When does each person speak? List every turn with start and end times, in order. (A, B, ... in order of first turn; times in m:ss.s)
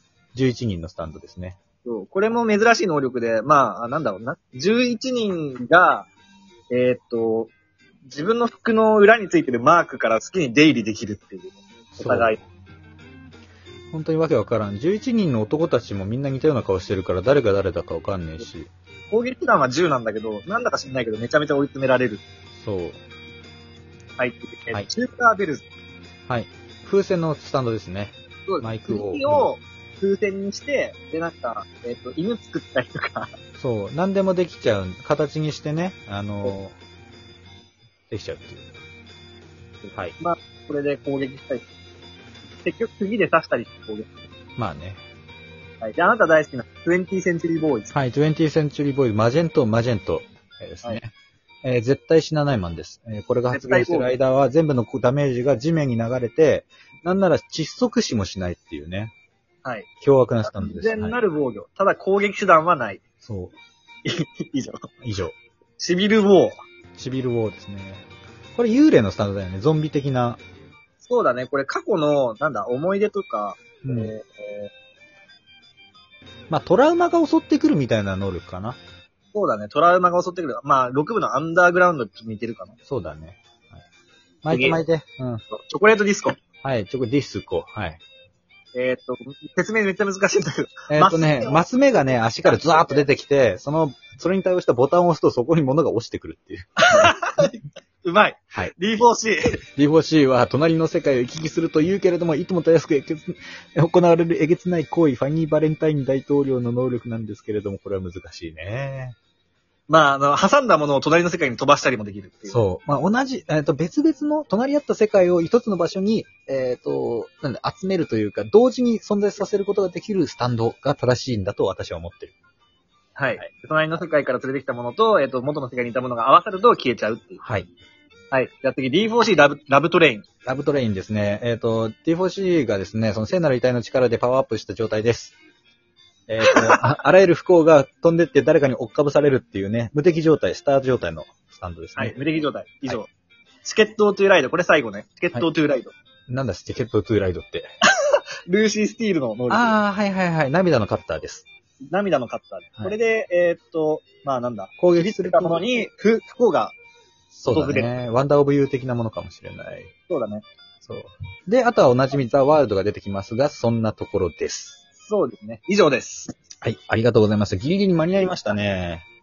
0:00.3-0:01.6 A
0:01.8-0:06.1 B
0:06.7-0:07.5 B
0:08.1-0:12.4 B
0:12.0-0:12.4 A
0:13.9-0:18.7 A
0:19.1-0:22.2 B
0:22.6-0:23.0 A
0:24.2-0:25.6 B
0:26.3-0:29.5 A
0:28.5-0:33.3 B
0:33.6-0:36.8 A
0:38.1-0:38.7 A
0:39.9-0:40.2 A
0:40.2-0:41.7 B
0:42.6-0:44.2 B
0:44.6-0:45.0 A
0:45.8-0:47.9 B
0:47.9-0:51.1 A
0:51.6-0:59.1 A
0:53.5-0:54.1 B
1:00.0-1:01.2 A
1:00.4-1:03.0 B
1:03.2-1:03.6 A
1:04.1-1:04.9 B
1:05.0-1:05.4 A
1:05.8-1:06.6 B
1:07.0-1:10.4 A
1:11.0-1:14.7 B
1:13.8-1:14.1 A
1:16.5-1:18.8 A
1:19.3-1:22.8 B
1:22.9-1:23.8 A
1:24.4-1:25.4 A
1:24.5-1:24.8 B
1:25.5-1:26.4 B
1:26.6-1:28.0 A
1:28.8-1:33.1 B
1:30.9-1:37.1 A
1:36.9-1:39.6 B
1:39.8-1:49.2 A
1:49.9-1:52.6 B
1:52.5-2:02.3 A
2:03.2-2:07.4 B
2:07.4-2:07.7 A
2:08.3-2:10.3 B
2:10.4-2:15.4 A
2:16.3-2:22.2 A
2:16.5-2:16.8 B
2:22.0-2:23.1 B
2:23.6-2:25.9 B
2:26.3-2:27.7 A
2:28.0-2:29.8 B
2:29.5-2:31.5 A
2:31.9-2:36.8 B
2:34.8-2:35.6 A
2:37.3-2:39.9 A
2:37.5-2:37.9 B
2:40.1-2:40.4 B
2:40.8-2:44.8 A
2:45.0-2:46.3 B
2:46.6-2:49.1 A